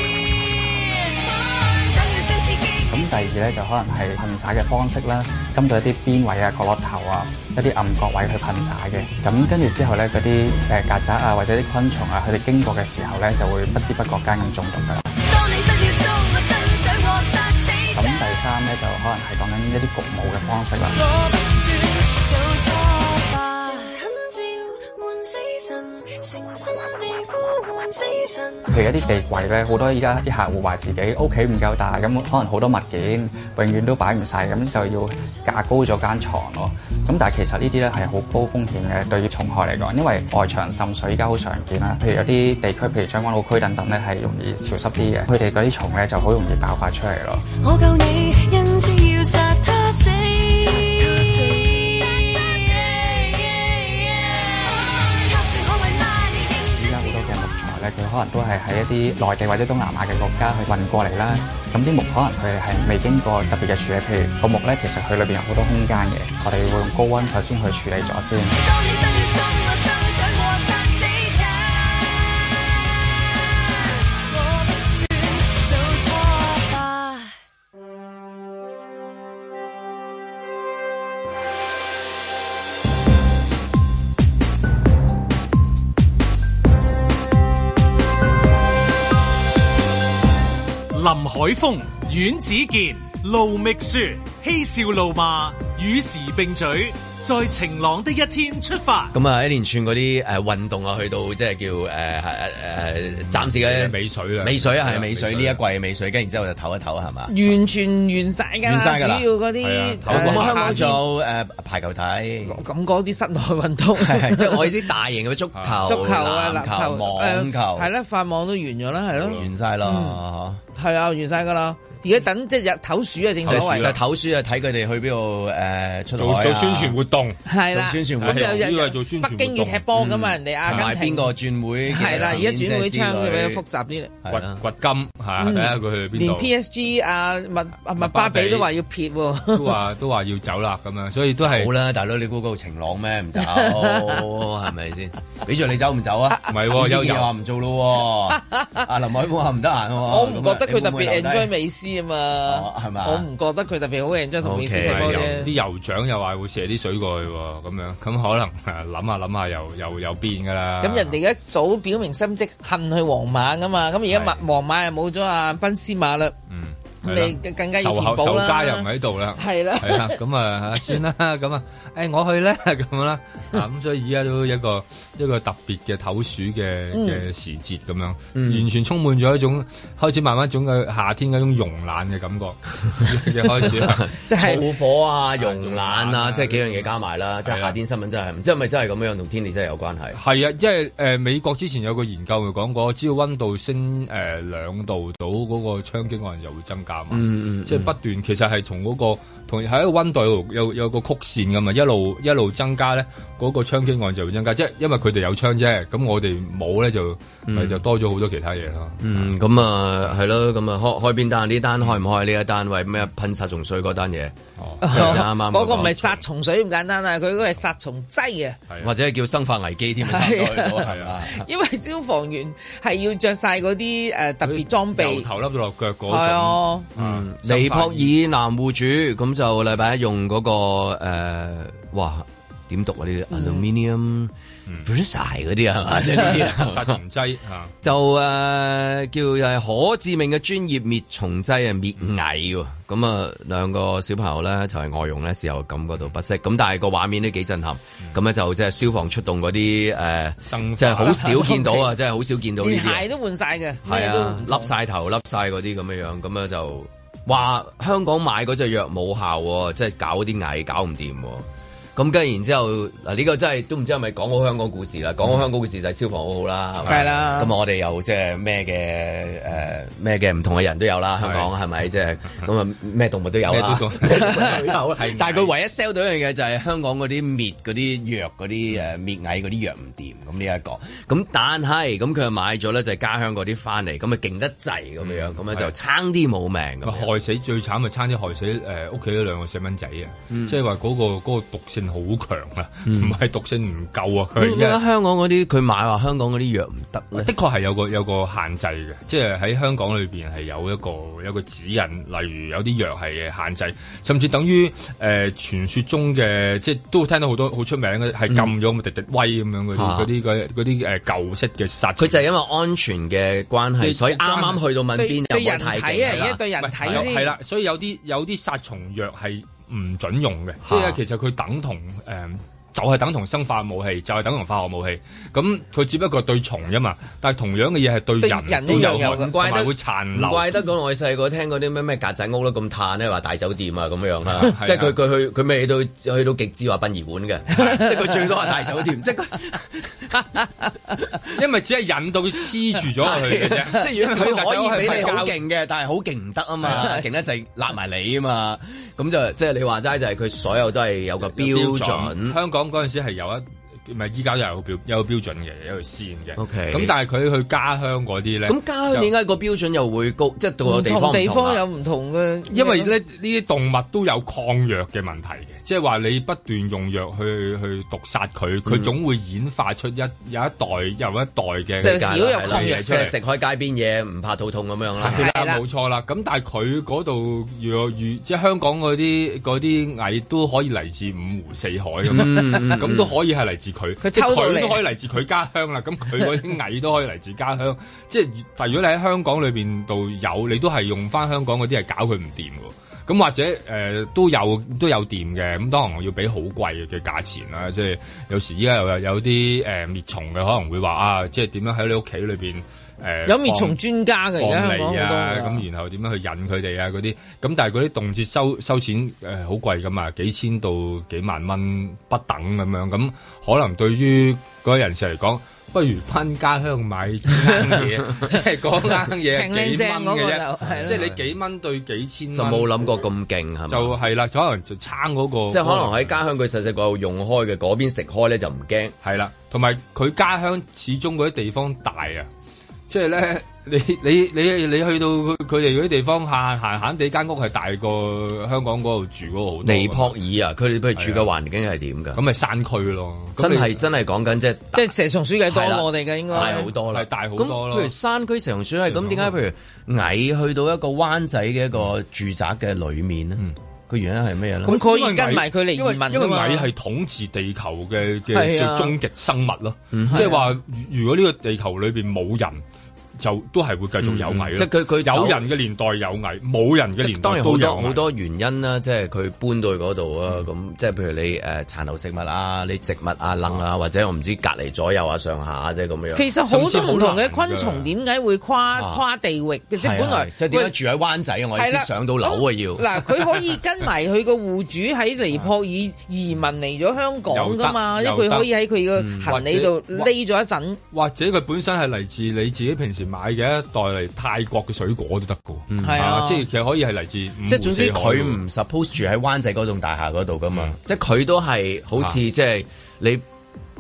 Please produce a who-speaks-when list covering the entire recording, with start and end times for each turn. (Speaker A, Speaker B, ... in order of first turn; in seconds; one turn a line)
Speaker A: 1.3-2.8
Speaker B: 2.9-15.1
Speaker A: 15.2-18.2
Speaker B: 17.9-21.0
Speaker A: 20.9-28.7
Speaker B: 28.7-47.4
Speaker A: 47.6-56.8
Speaker B: 56.7-68.5
Speaker A: 68.5-77.3
Speaker C: 90.9-99.1
Speaker D: 99.1-107.3
Speaker E: 103.3-105.6
Speaker F: 107.3-111.0
Speaker D: 108.6-109.2
Speaker E: 109.6-110.9
Speaker D: 110.0-112.6
Speaker F: 112.5-114.8
Speaker D: 114.0-117.9
Speaker E: 115.5-116.1
Speaker F: 115.9-120.2
Speaker E: 119.1-119.5
Speaker D: 119.3-120.6
Speaker F: 120.7-123.9
Speaker D: 123.5-127.0
Speaker E: 123.5-124.0
Speaker E: 126.2-127.4
Speaker F: 127.5-131.3
Speaker D: 127.7-128.6
Speaker E: 128.2-129.9
Speaker D: 129.9-133.6
Speaker F: 131.9-134.1
Speaker E: 132.0-132.4
Speaker D: 134.2-134.6
Speaker E: 134.3-136.5
Speaker F: 135.4-139.8
Speaker E: 138.0-138.7
Speaker E: 139.5-141.7
Speaker D: 141.4-151.5
Speaker F: 143.4-144.2
Speaker E: 146.5-147.3
Speaker F: 148.4-148.8
Speaker F: 150.1-155.5
Speaker D: 152.4-153.3
Speaker D: 154.4-155.4
Speaker E: 154.9-161.2
Speaker F: 160.8-166.3
Speaker E: 164.1-164.4
Speaker E: 166.5-184.1
Speaker F: 167.0-168.9
Speaker F: 169.4-170.2
Speaker F: 176.9-177.2
Speaker D: 178.3-178.7
Speaker D: 183.7-190.2
Speaker F: 184.2-184.6
Speaker E: 185.4-186.9
Speaker E: 187.4-187.8
Speaker E: 190.1-209.3
Speaker D: 197.1-197.9
Speaker D: 207.5-207.8
Speaker D: 209.0-214.3
Speaker E: 214.6-215.2
Speaker F: 214.8-218.6
Speaker D: 214.9-216.2
Speaker D: 218.8-221.4
Speaker F: 220.0-225.3
Speaker E: 220.8-221.2
Speaker E: 224.4-228.1
Speaker F: 226.1-226.9
Speaker D: 227.0-234.3
Speaker F: 233.3-233.6
Speaker D: 234.9-237.0
Speaker E: 236.2-237.7
Speaker D: 237.8-253.1
Speaker E: 250.4-251.6
Speaker F: 251.0-251.9
Speaker F: 252.6-254.7
Speaker D: 253.8-287.1
Speaker E: 266.9-267.2
Speaker F: 266.9-267.5
Speaker E: 271.2-271.5
Speaker E: 273.5-275.5
Speaker E: 285.0-285.7
Speaker E: 286.9-294.8
Speaker D: 290.3-290.6
Speaker D: 292.9-293.2
Speaker D: 294.4-297.3
Speaker E: 297.1-312.2
Speaker D: 309.7-310.1
Speaker D: 312.0-317.1
Speaker E: 313.8-314.6
Speaker F: 314.9-317.3
Speaker E: 316.1-330.6
Speaker D: 320.6-321.0
Speaker F: 328.2-329.3
Speaker D: 328.6-340.2
Speaker E: 334.3-334.9
Speaker E: 341.3-345.4
Speaker D: 343.0-352.4
Speaker E: 346.6-346.9
Speaker E: 351.2-359.1
Speaker D: 356.4-356.9
Speaker D: 358.5-361.6
Speaker F: 360.6-362.9
Speaker E: 362.5-373.1
Speaker D: 368.7-368.9
Speaker F: 371.8-373.0
Speaker D: 371.8-375.2
Speaker E: 375.0-403.8
Speaker F: 375.1-375.6
Speaker D: 382.0-383.1
Speaker F: 384.0-384.8
Speaker F: 403.2-405.6
Speaker E: 404.4-422.9
Speaker F: 419.3-420.9
Speaker D: 420.6-421.2
Speaker D: 422.3-423.9
Speaker E: 423.7-426.2
Speaker D: 425.5-428.9
Speaker E: 429.0-432.3
Speaker E: 432.9-440.2
Speaker D: 439.6-442.2
Speaker E: 440.9-441.3
Speaker E: 442.1-443.8
Speaker D: 443.4-444.9
Speaker F: 444.7-446.7
Speaker D: 445.4-454.8
Speaker E: 446.4-447.9
Speaker E: 448.8-449.4
Speaker E: 454.6-462.6
Speaker F: 454.7-456.7
Speaker F: 458.3-458.9
Speaker D: 459.9-460.4
Speaker F: 460.1-460.4
Speaker E: 463.2-468.0
Speaker D: 464.0-465.4
Speaker D: 467.0-476.2
Speaker F: 476.1-480.8
Speaker E: 476.5-477.9
Speaker D: 478.8-479.0
Speaker D: 479.8-482.9
Speaker F: 481.5-490.8
Speaker E: 487.3-488.5
Speaker D: 489.0-489.3
Speaker E: 489.2-490.1
Speaker E: 490.9-498.4
Speaker D: 495.7-496.1
Speaker F: 495.8-496.4
Speaker D: 497.5-503.2